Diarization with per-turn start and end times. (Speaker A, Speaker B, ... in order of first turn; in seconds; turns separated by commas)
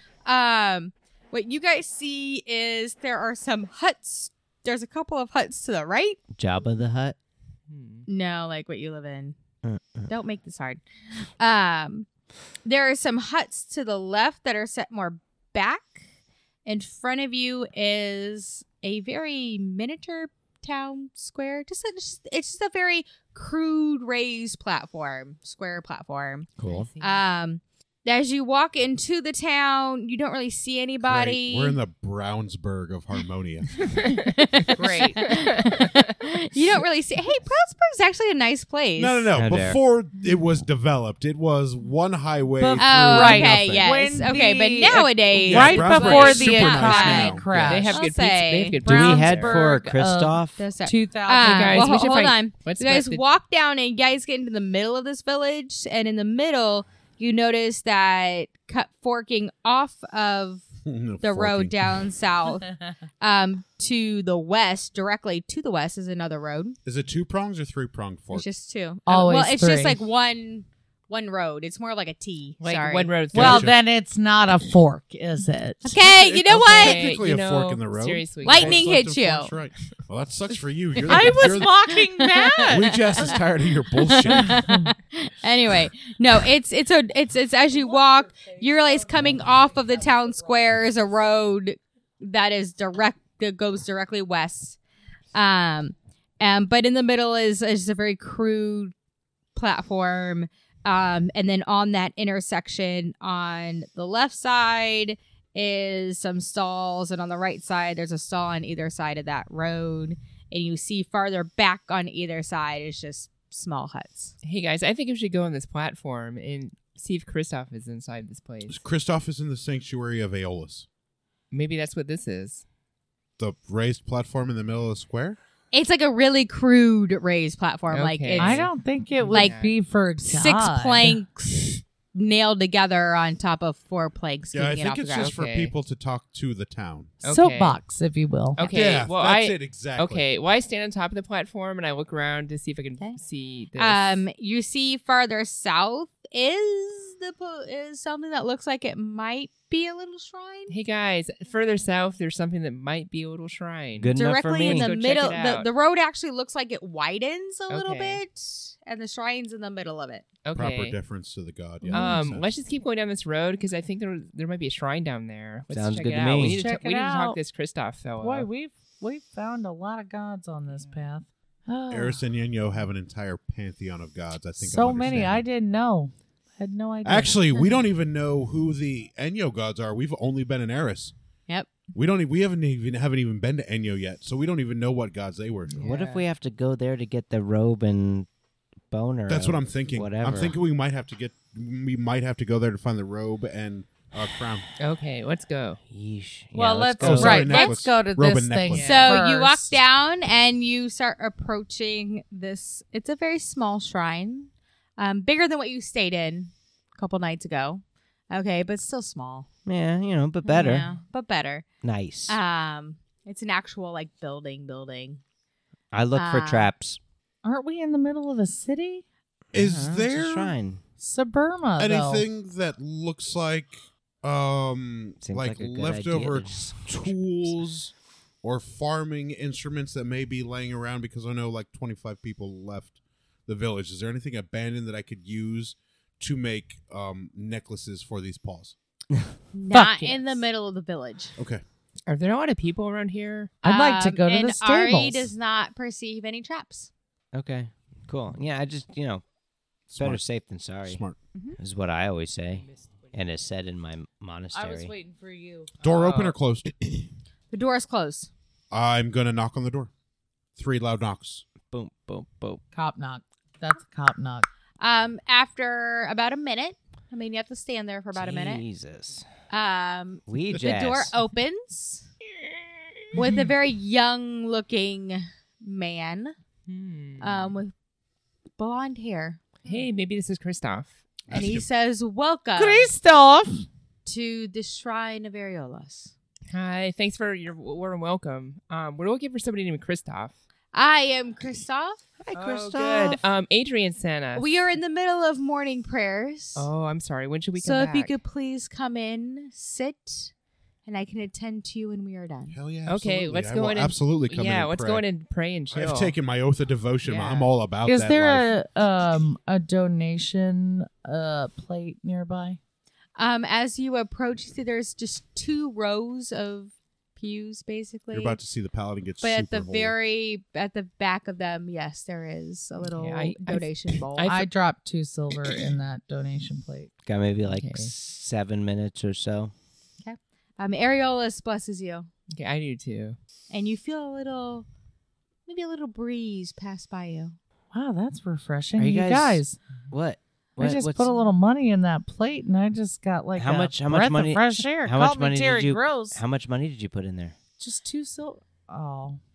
Speaker A: 0.2-6.2, Speaker B: 6.4-7.2, Speaker C: 7.7-8.1, Speaker A: 8.1-9.3, Speaker B: 9.6-10.1, Speaker A: 10.1-10.8, Speaker A: 11.4-12.1, Speaker A: 12.6-16.0, Speaker A: 16.6-26.5, Speaker B: 26.6-26.9, Speaker C: 26.7-27.2, Speaker A: 27.0-31.8, Speaker D: 31.0-33.8, Speaker C: 33.8-36.1, Speaker A: 34.1-39.3, Speaker E: 34.7-35.3, Speaker D: 39.0-43.6, Speaker B: 39.3-39.8, Speaker E: 42.6-48.0, Speaker A: 42.8-48.8, Speaker B: 43.2-43.7, Speaker D: 45.5-47.9, Speaker C: 47.5-49.6, Speaker E: 48.8-51.9, Speaker B: 48.8-50.6, Speaker A: 50.6-60.6, Speaker C: 51.4-53.2, Speaker D: 60.9-62.0, Speaker A: 61.2-66.8, Speaker D: 66.8-68.5, Speaker A: 68.3-73.1, Speaker E: 69.1-70.0, Speaker C: 72.6-73.7, Speaker D: 73.3-73.8, Speaker E: 73.3-76.0, Speaker A: 75.8-77.1, Speaker D: 76.0-81.8, Speaker C: 76.6-78.9, Speaker A: 78.4-79.5, Speaker A: 81.0-83.3, Speaker E: 81.0-83.4, Speaker D: 82.7-84.7, Speaker A: 84.1-94.8, Speaker E: 84.3-84.9, Speaker E: 87.7-90.8, Speaker A: 95.3-98.9, Speaker A: 99.5-114.3, Speaker C: 114.4-118.8, Speaker D: 118.7-120.8, Speaker C: 121.5-122.6, Speaker D: 123.4-125.4, Speaker A: 125.7-128.7, Speaker C: 127.9-129.7, Speaker E: 128.4-131.2, Speaker A: 129.3-129.5, Speaker A: 130.2-135.3, Speaker D: 134.5-137.2, Speaker C: 135.1-135.7, Speaker C: 137.2-137.8, Speaker E: 137.2-138.7, Speaker C: 138.5-144.2, Speaker D: 138.6-140.2, Speaker A: 143.7-150.7, Speaker C: 150.7-155.7, Speaker B: 154.0-154.9, Speaker A: 154.1-160.2, Speaker C: 157.7-158.2, Speaker C: 160.4-161.0, Speaker D: 160.5-162.5, Speaker E: 161.9-162.3, Speaker C: 161.9-168.5, Speaker B: 165.7-166.6, Speaker E: 166.4-167.4, Speaker E: 168.2-172.2, Speaker D: 171.9-175.4, Speaker E: 174.6-177.6, Speaker D: 177.0-181.1, Speaker A: 181.5-181.7, Speaker D: 181.9-185.9, Speaker C: 185.7-186.2, Speaker B: 185.8-188.2, Speaker B: 188.9-190.6, Speaker D: 189.3-194.7, Speaker C: 194.8-195.8, Speaker B: 195.9-197.5, Speaker E: 196.5-199.8, Speaker D: 197.0-198.9, Speaker A: 197.4-197.8, Speaker C: 198.7-199.2, Speaker A: 198.8-209.5, Speaker B: 209.7-210.8, Speaker A: 210.4-211.6, Speaker B: 211.8-212.4, Speaker A: 212.3-215.2, Speaker B: 215.9-217.0, Speaker A: 216.1-216.7, Speaker E: 217.4-219.0, Speaker D: 219.5-220.5, Speaker B: 219.5-220.8, Speaker E: 221.0-222.2, Speaker D: 221.8-232.9, Speaker B: 225.2-227.6, Speaker D: 233.4-238.7, Speaker A: 239.5-241.3, Speaker C: 240.0-240.4, Speaker D: 241.4-241.6, Speaker C: 242.1-243.6, Speaker E: 243.6-245.3, Speaker A: 243.6-246.9, Speaker B: 247.3-249.2, Speaker D: 249.9-250.2, Speaker B: 249.9-251.0, Speaker D: 250.8-251.2, Speaker B: 251.6-254.9, Speaker C: 252.7-253.1, Speaker E: 254.5-255.7, Speaker C: 255.8-256.3, Speaker D: 255.8-257.1, Speaker A: 257.5-258.3, Speaker D: 258.7-259.9, Speaker D: 260.5-261.4, Speaker B: 261.7-262.6, Speaker E: 262.7-264.5, Speaker A: 264.8-268.6, Speaker B: 268.1-269.3, Speaker A: 269.5-272.1, Speaker B: 270.3-271.1, Speaker A: 273.1-276.3, Speaker C: 276.7-277.6, Speaker A: 277.2-277.7, Speaker A: 278.6-279.8, Speaker C: 279.6-281.0, Speaker D: 281.3-281.6, Speaker A: 281.3-282.9, Speaker E: 282.6-283.6, Speaker A: 284.0-286.1, Speaker C: 286.5-290.4, Speaker A: 290.7-292.0, Speaker B: 292.2-293.2, Speaker C: 292.3-294.6, Speaker A: 294.4-296.7, Speaker C: 296.6-298.1, Speaker A: 297.6-300.3, Speaker A: 300.9-302.6, Speaker D: 302.5-305.1, Speaker C: 302.8-306.1, Speaker D: 305.7-308.5, Speaker C: 307.0-307.5, Speaker E: 307.8-312.6, Speaker A: 313.2-318.4, Speaker D: 318.1-319.9, Speaker A: 319.2-324.4, Speaker C: 322.8-324.4, Speaker E: 324.3-326.9, Speaker B: 327.0-329.5, Speaker C: 327.4-327.9, Speaker A: 330.0-332.1, Speaker C: 332.3-333.2, Speaker A: 333.5-334.6, Speaker A: 335.4-337.4, Speaker E: 337.7-339.6, Speaker B: 338.8-341.1, Speaker E: 340.6-346.2, Speaker B: 343.4-347.3, Speaker E: 347.6-349.2